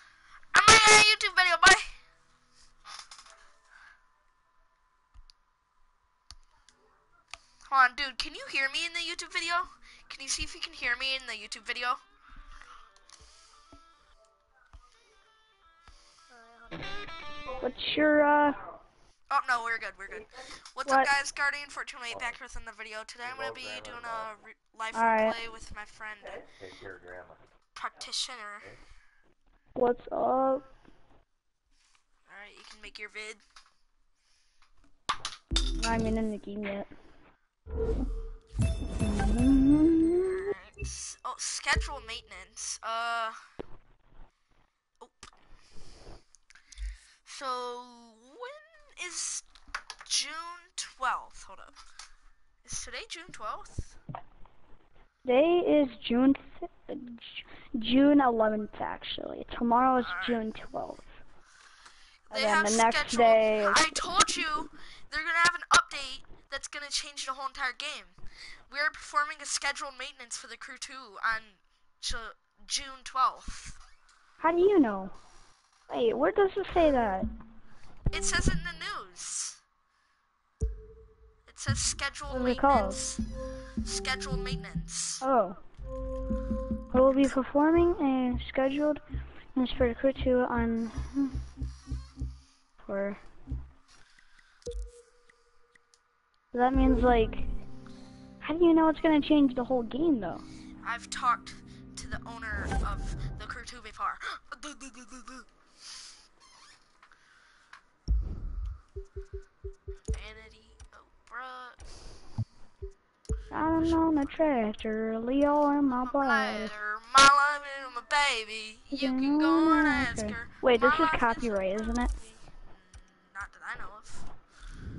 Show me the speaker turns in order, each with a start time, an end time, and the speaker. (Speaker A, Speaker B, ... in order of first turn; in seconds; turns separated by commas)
Speaker A: 0.5-1.9, Speaker A: 7.7-12.0, Speaker B: 17.5-18.6, Speaker A: 19.3-26.4, Speaker B: 20.9-21.1, Speaker B: 24.9-25.4, Speaker A: 27.7-28.7, Speaker B: 29.8-30.6, Speaker A: 32.3-33.4, Speaker B: 35.8-36.9, Speaker B: 39.0-40.5, Speaker A: 40.2-43.4, Speaker A: 45.0-45.3, Speaker A: 47.2-49.5, Speaker A: 50.0-51.8, Speaker A: 52.6-54.0, Speaker B: 55.2-61.0, Speaker A: 60.0-60.4, Speaker A: 62.3-68.2, Speaker B: 62.3-64.0, Speaker A: 68.7-73.8, Speaker B: 74.4-75.1, Speaker B: 75.9-77.3, Speaker A: 78.1-79.6, Speaker A: 81.5-83.2, Speaker B: 82.3-83.0, Speaker A: 83.8-85.2, Speaker B: 85.2-85.6, Speaker B: 86.9-89.0, Speaker B: 89.5-91.4, Speaker B: 92.8-93.2, Speaker B: 96.5-97.5, Speaker B: 98.4-100.4, Speaker A: 100.8-105.5, Speaker A: 110.1-111.8, Speaker B: 113.5-116.7, Speaker A: 116.0-124.3, Speaker B: 118.9-122.1